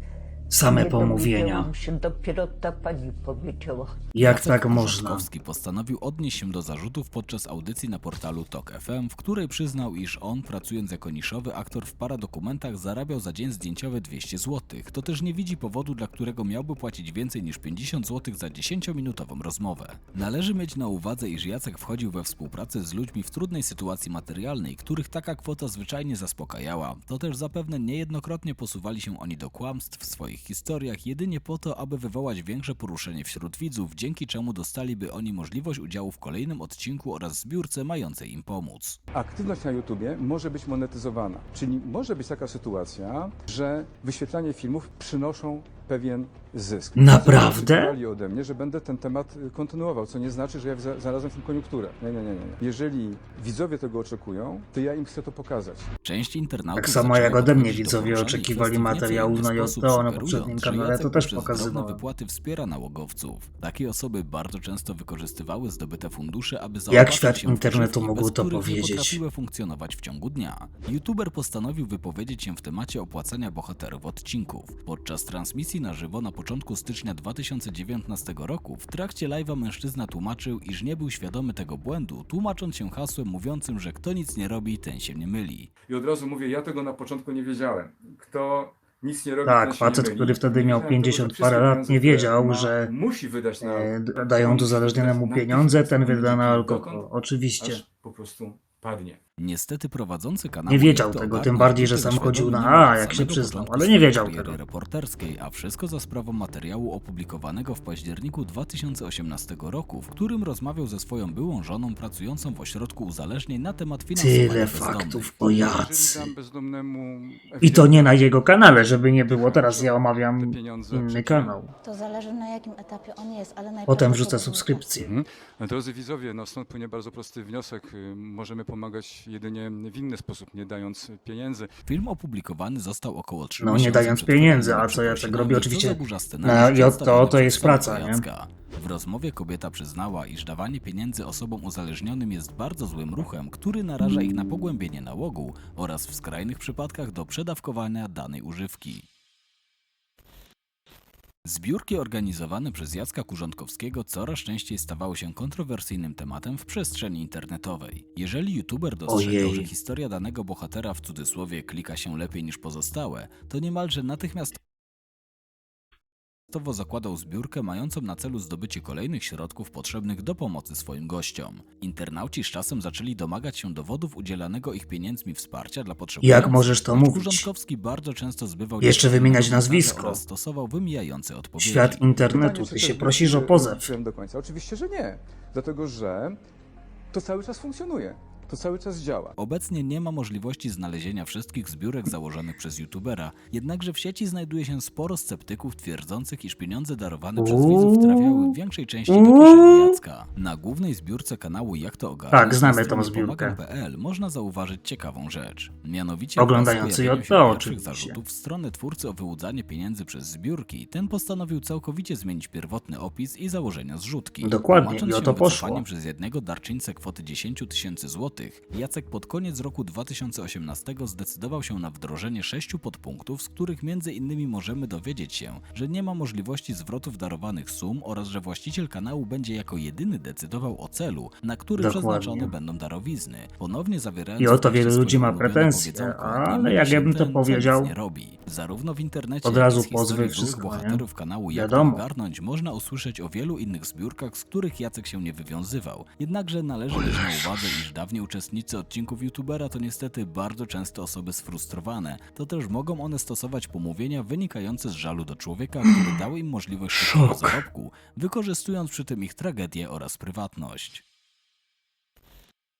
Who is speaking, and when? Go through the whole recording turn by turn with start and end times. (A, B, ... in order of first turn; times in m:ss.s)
0:00.5-0:01.7 A
0:00.6-0:04.0 B
0:04.1-0:05.2 A
0:04.2-0:39.0 C
0:39.1-0:55.9 D
0:47.0-0:47.9 A
0:56.0-1:25.7 C
0:56.8-1:02.0 A
1:06.9-1:09.2 A
1:25.9-1:37.1 D
1:29.4-1:32.9 A
1:33.6-1:37.8 A
1:37.6-1:39.2 D
1:39.4-1:55.5 C
1:40.7-1:44.6 A
1:54.1-1:56.3 A
1:55.4-2:01.6 D
1:57.6-2:01.7 A
2:01.8-2:04.9 E
2:03.9-2:05.1 A
2:05.0-2:11.7 D
2:11.8-2:29.0 C
2:13.6-2:18.2 A
2:31.4-2:44.6 C
2:39.1-2:39.7 A
2:46.5-3:02.0 C
2:56.2-2:57.5 A
2:58.8-3:00.2 A
3:01.6-3:03.9 A
3:02.2-3:06.4 D
3:07.1-3:09.3 D
3:09.4-4:21.0 C
3:17.4-3:18.5 A
3:19.1-3:20.0 A
3:22.3-3:23.6 A
3:26.4-3:28.2 A
3:34.4-3:35.8 A
3:51.8-3:52.5 A
3:54.4-3:57.9 A
3:59.4-4:02.0 A
4:07.0-4:07.6 A
4:15.8-4:16.2 A
4:17.0-4:17.6 A